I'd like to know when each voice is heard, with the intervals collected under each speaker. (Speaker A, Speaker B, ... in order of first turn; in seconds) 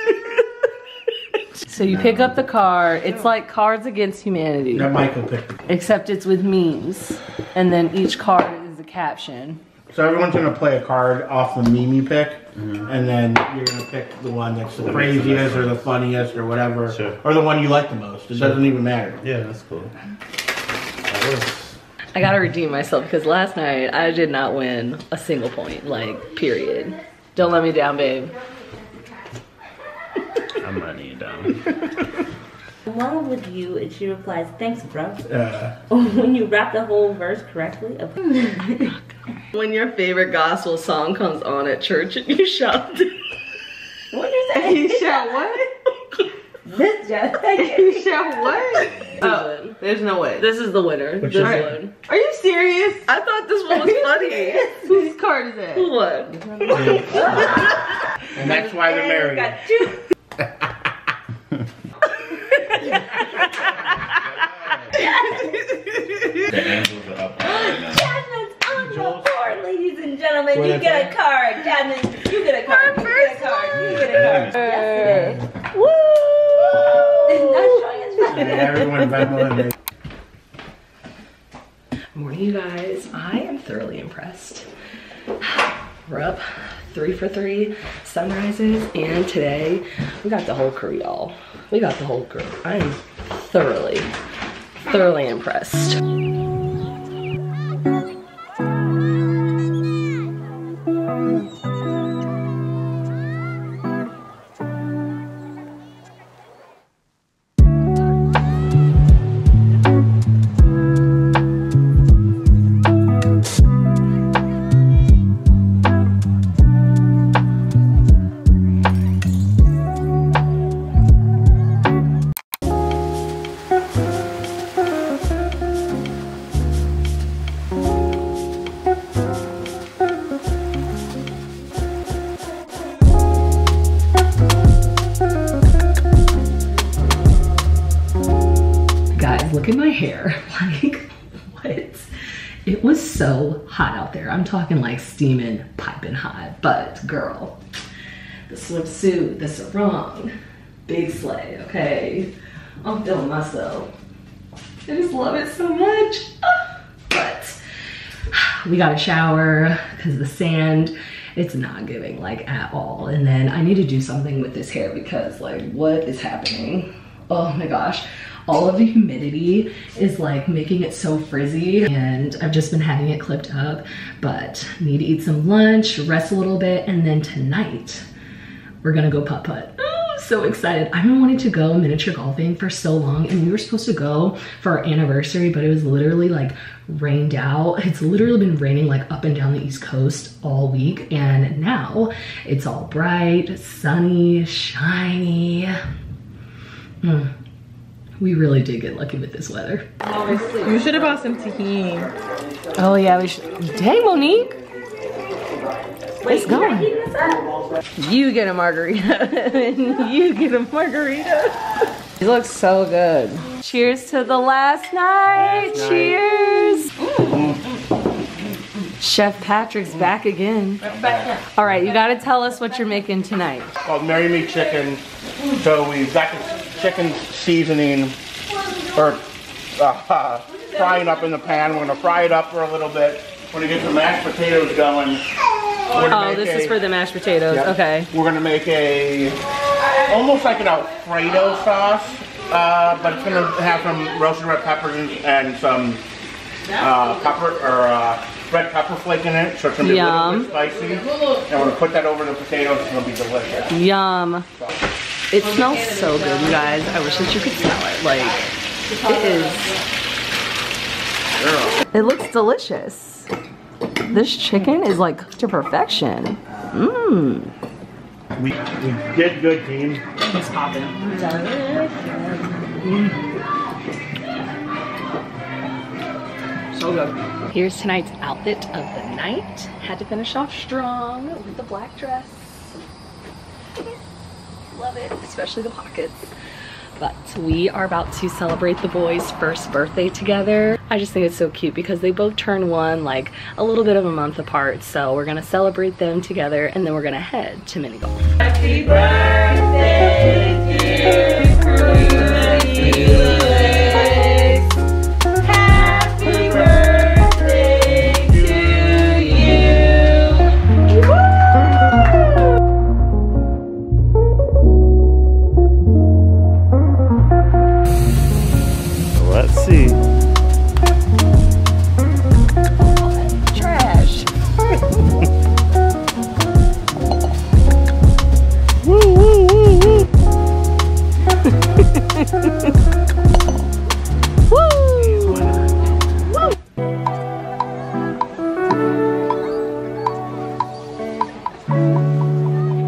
Speaker A: 1.6-4.9, 5.7-9.6, 22.1-28.4, 39.5-43.2, 44.1-45.6, 48.0-48.4, 49.1-49.8, 50.4-52.0, 53.1-55.1, 55.7-57.6, 74.5-77.8, 82.1-84.7, 86.1-94.1, 94.8-96.0, 139.1-142.1, 142.7-147.6, 148.5-150.3, 150.9-152.3, 152.8-153.9, 154.9-156.6, 157.1-157.6, 158.3-178.1, 178.8-195.8, 197.0-197.3, 198.2-199.9, 202.8-204.6, 206.2-206.9, 208.0-216.9, 219.0-220.8, 221.5-223.7, 236.1-238.1, 249.8-250.5, 253.7-254.5, 255.3-259.8, 261.8-263.3, 264.1-267.5, 270.2-273.2, 276.7-282.8, 284.7-286.3, 287.0-298.4, 302.0-303.9, 323.0-324.3, 328.9-329.5, 331.4-332.7, 334.5-335.4
Speaker B: 4.7-5.6, 9.9-19.2, 35.3-35.8, 51.2-51.7, 56.7-57.5, 58.3-59.6, 68.8-69.3, 70.5-71.1, 78.3-79.7, 215.5-216.1, 217.3-217.6, 220.9-221.3, 223.8-228.2, 228.9-235.3, 235.8-236.8, 237.5-239.4, 239.9-246.0, 246.8-253.7, 268.4-270.1
Speaker C: 12.6-12.8, 14.8-15.8, 16.9-17.2, 18.3-18.6, 19.2-19.9, 21.1-21.8, 30.6-31.8, 66.5-68.1, 73.9-74.6, 319.1-320.0, 334.9-335.9
Speaker D: 32.9-35.3, 35.9-38.9, 46.7-48.1, 56.9-57.7, 58.3-60.0, 65.0-65.4, 67.4-75.4, 77.3-79.1, 206.3-207.5, 220.9-221.3, 299.4-300.2, 300.9-301.2, 301.9-302.6, 303.2-304.1, 307.1-309.1
Speaker E: 44.5-45.7, 47.5-50.5, 51.4-53.1, 53.8-57.3, 200.1-202.1, 246.7-247.1, 250.7-251.5, 255.4-257.6, 258.8-259.8, 298.4-303.9, 305.8-307.0